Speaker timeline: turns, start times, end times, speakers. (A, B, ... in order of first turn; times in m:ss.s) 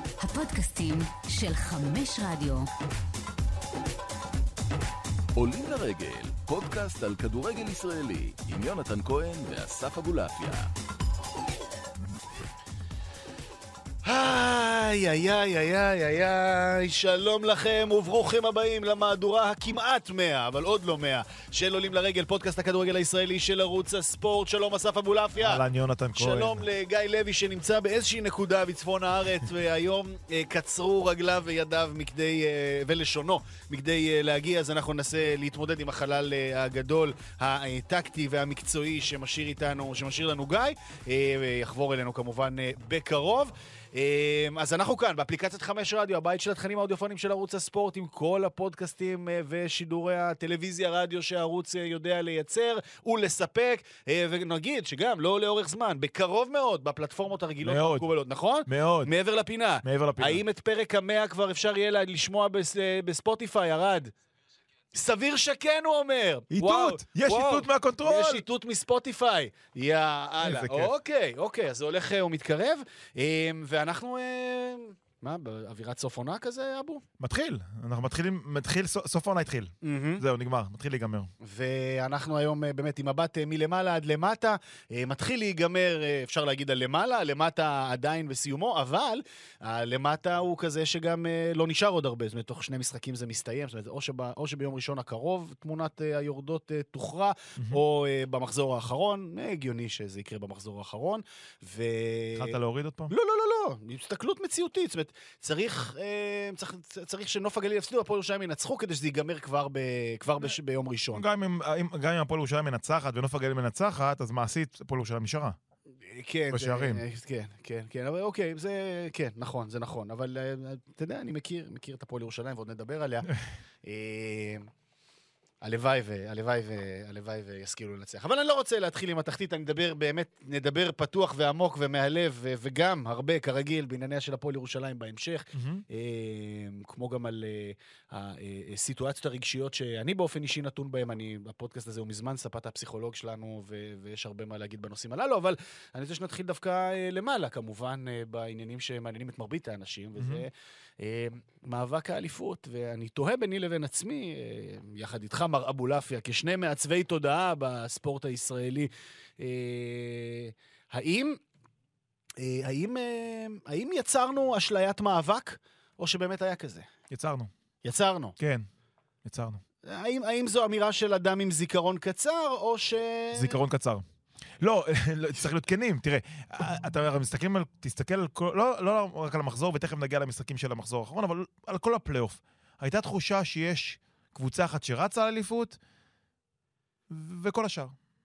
0:00.2-0:02.7 A
0:05.4-0:10.7 B
0:14.0-0:25.6 C
0:25.4-0:26.6 D
0:26.2-1:04.1 C
0:57.6-0:58.1 D
0:58.7-0:59.1 D
0:59.8-1:00.4 D
1:04.9-1:17.0 C
1:06.5-1:08.4 D
1:10.4-1:10.9 D
1:17.2-1:21.3 D
1:19.8-1:20.2 C
1:21.4-1:42.6 C
1:42.4-1:43.1 D
1:43.1-1:51.2 C
1:51.1-1:55.6 D
1:56.0-2:03.3 C
1:56.5-1:57.0 D
2:03.8-2:04.7 C
2:05.6-2:41.4 C
2:15.5-2:15.8 D
2:30.2-2:30.4 D
2:42.4-2:46.9 C
2:47.1-2:47.5 D
2:47.8-2:48.4 C
2:48.4-2:48.7 D
2:49.2-2:49.6 D
2:49.8-2:53.6 C
2:53.4-2:54.0 D
2:54.6-3:05.8 D
3:07.1-3:07.9 D